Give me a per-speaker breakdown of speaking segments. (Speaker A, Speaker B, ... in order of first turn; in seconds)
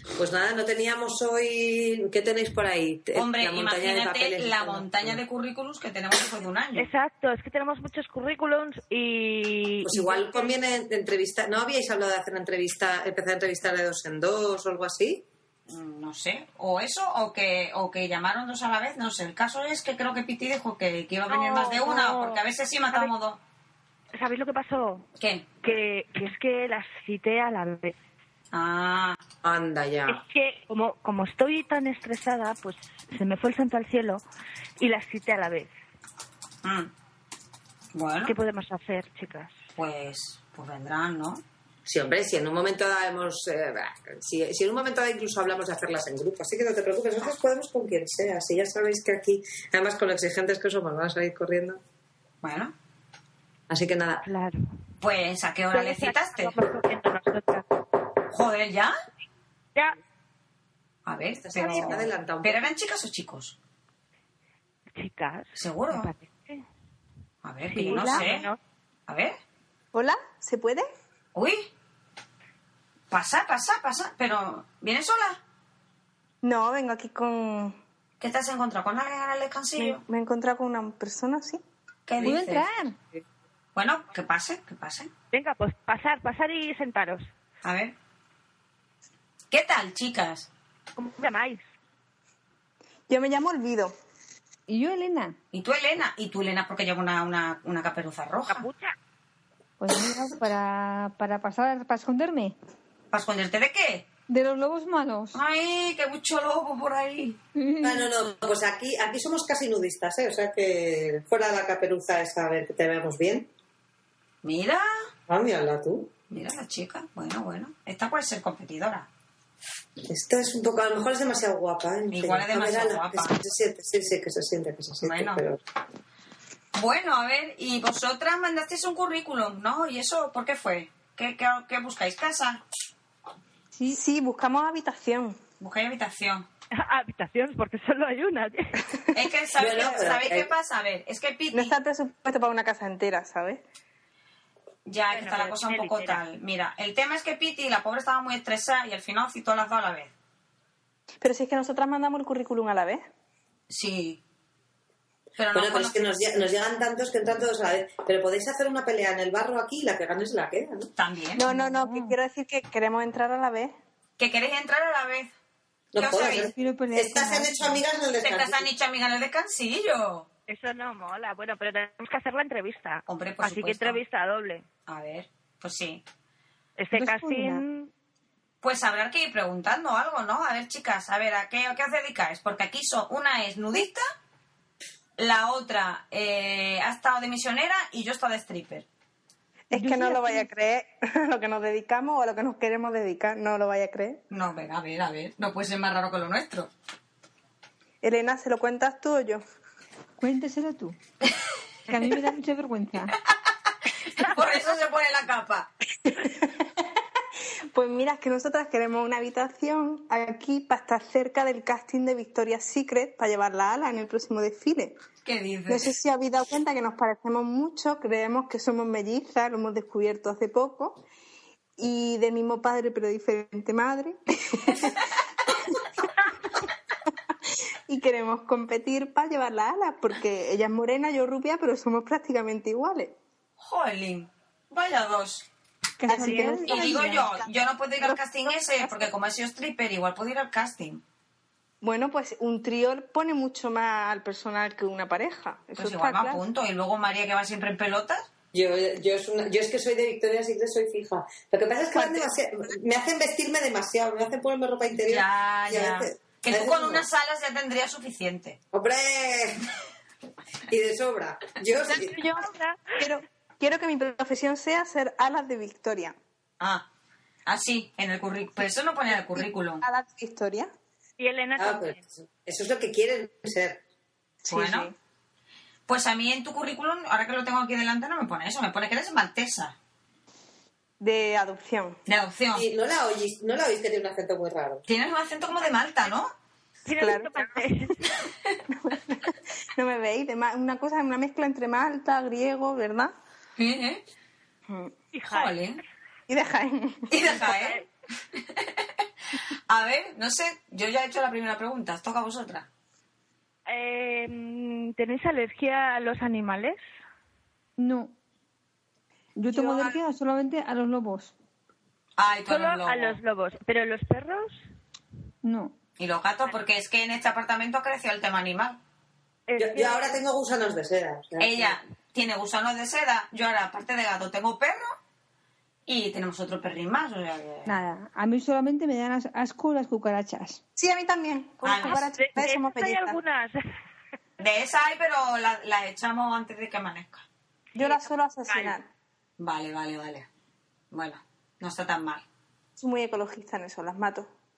Speaker A: 0.2-5.2, 9.8-15.3, 29.4-30.2, 41.9-51.8, 53.7-54.2, 61.4-62.6, 82.2-82.4, 107.8-113.5, 115.3-116.1, 120.1-125.6, 139.6-140.5, 155.5-160.9, 165.9-168.7, 248.5-257.1, 258.7-259.7, 260.7-262.2, 271.6-273.8, 282.5-284.9, 319.6-321.8
Speaker B: 3.1-6.9, 15.7-23.4, 25.2-25.5, 28.5-29.2, 36.6-36.9, 37.9-38.4, 39.8-41.4, 52.4-52.7, 55.0-56.6, 58.3-59.0, 61.1-63.6, 65.6-66.1, 67.4-68.5, 69.1-69.4, 71.3-71.7, 73.1-75.4, 78.2-80.0, 82.1-82.7, 83.8-85.1, 87.6-88.0, 89.5-90.5, 95.5-98.7, 103.1-104.1, 105.3-107.4, 114.4-114.9, 116.3-119.1, 122.1-123.4, 125.0-125.4, 126.8-132.6, 135.6-136.5, 139.1-141.7, 144.9-150.1, 153.7-154.2, 155.4-156.0, 161.0-161.4, 164.2-165.3, 165.9-166.5, 168.2-170.3, 173.1-174.0, 174.9-176.0, 178.6-184.0, 185.2-188.9, 194.3-196.7, 204.1-205.7, 215.2-215.9, 233.6-235.5, 236.7-241.0, 245.8-248.2, 255.1-258.6, 266.6-266.9, 267.5-269.8, 274.5-274.9, 275.9-279.8, 282.1-282.7, 284.9-286.3, 293.6-294.0, 295.3-295.8, 297.1-302.7, 312.2-313.2, 316.0-318.8, 321.4-324.9, 325.9-327.8, 331.6-332.0, 334.4-337.2, 339.4-340.3, 340.9-342.2
Speaker C: 6.8-10.5, 21.3-23.1, 24.1-25.1, 25.6-27.9, 30.1-34.2, 34.8-35.7, 38.3-39.5, 54.2-54.7, 55.7-57.7, 61.6-61.9, 65.0-66.6, 67.7-68.6, 85.3-87.3, 91.0-91.6, 98.5-99.0, 136.7-138.8, 145.1-146.2, 170.5-174.7, 176.8-177.9, 262.2-263.1, 271.2-272.0, 286.9-288.1, 295.1-295.6, 297.3-297.8, 303.7-306.8, 312.5-314.6, 319.5-320.2, 331.8-333.7, 337.8-338.7
Speaker D: 67.8-68.3, 69.9-70.9, 76.4-77.8, 79.8-81.6, 93.1-94.0, 133.9-135.4, 141.5-143.6, 151.2-153.1, 161.4-163.7, 189.7-194.2, 198.0-199.4, 206.1-206.9, 207.7-215.0, 215.7-221.0, 221.8-225.1, 227.9-233.2, 236.1-237.3, 238.8-239.1, 241.8-246.4, 251.9-252.3, 261.9-266.2, 269.3-270.7, 274.4-274.9, 281.0-282.0, 286.9-287.6, 288.7-293.1, 294.7-294.9, 296.3-297.3, 309.5-310.0, 330.8-333.2, 337.8-338.9, 342.8-344.3
Speaker E: 82.2-83.0, 94.7-95.4, 99.8-102.5, 104.3-105.4, 107.6-108.1, 133.7-134.0, 161.5-162.2, 166.4-167.8, 176.9-177.6, 189.7-190.5, 200.2-201.0, 201.9-203.2, 236.0-237.3, 307.8-308.1, 309.4-311.3, 315.4-315.7, 327.7-330.6